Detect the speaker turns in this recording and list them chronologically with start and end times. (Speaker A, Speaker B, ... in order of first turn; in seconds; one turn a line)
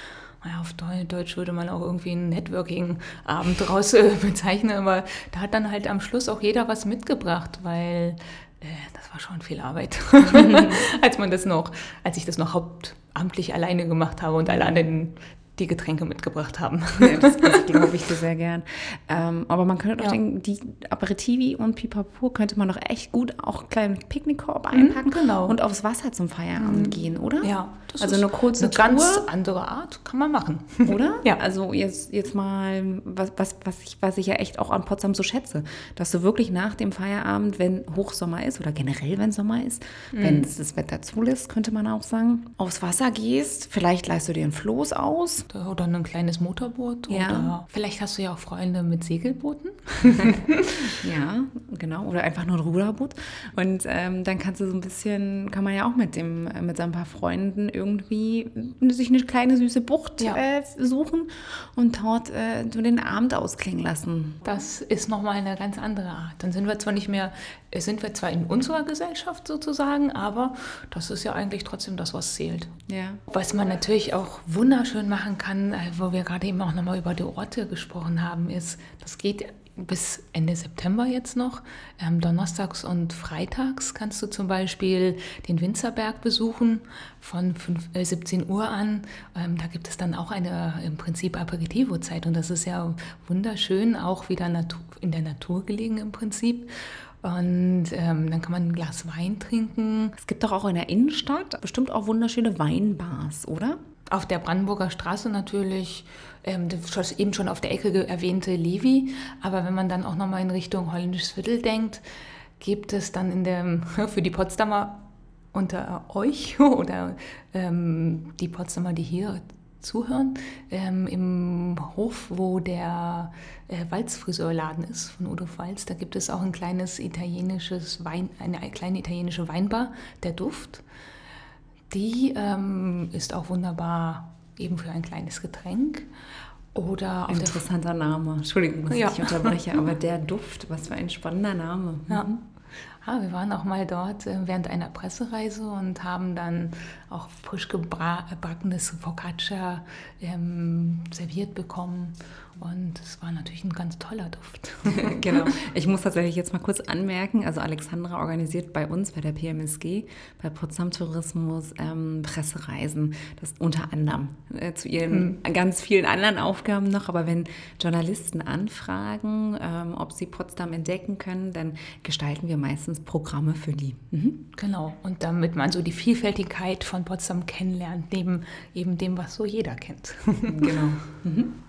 Speaker A: 0.4-17.9
Speaker B: 14.5-14.8
Speaker B: 17.0-29.3
Speaker A: 24.7-25.6
Speaker A: 26.6-31.4
Speaker B: 30.9-45.5
Speaker A: 40.1-40.5
Speaker A: 45.5-50.7
Speaker B: 47.1-47.5
Speaker B: 50.9-64.4
Speaker A: 64.4-72.7
Speaker B: 72.9-73.2
Speaker A: 73.3-100.2
Speaker B: 100.2-103.8
Speaker A: 104.1-112.0
Speaker A: 112.6-130.8
Speaker A: 131.9-136.1
Speaker A: 136.7-137.6
Speaker B: 137.3-142.4
Speaker A: 138.9-139.5
Speaker A: 143.0-155.5
Speaker B: 154.9-174.5
Speaker A: 165.1-165.4
Speaker A: 174.6-180.8
Speaker B: 180.5-181.6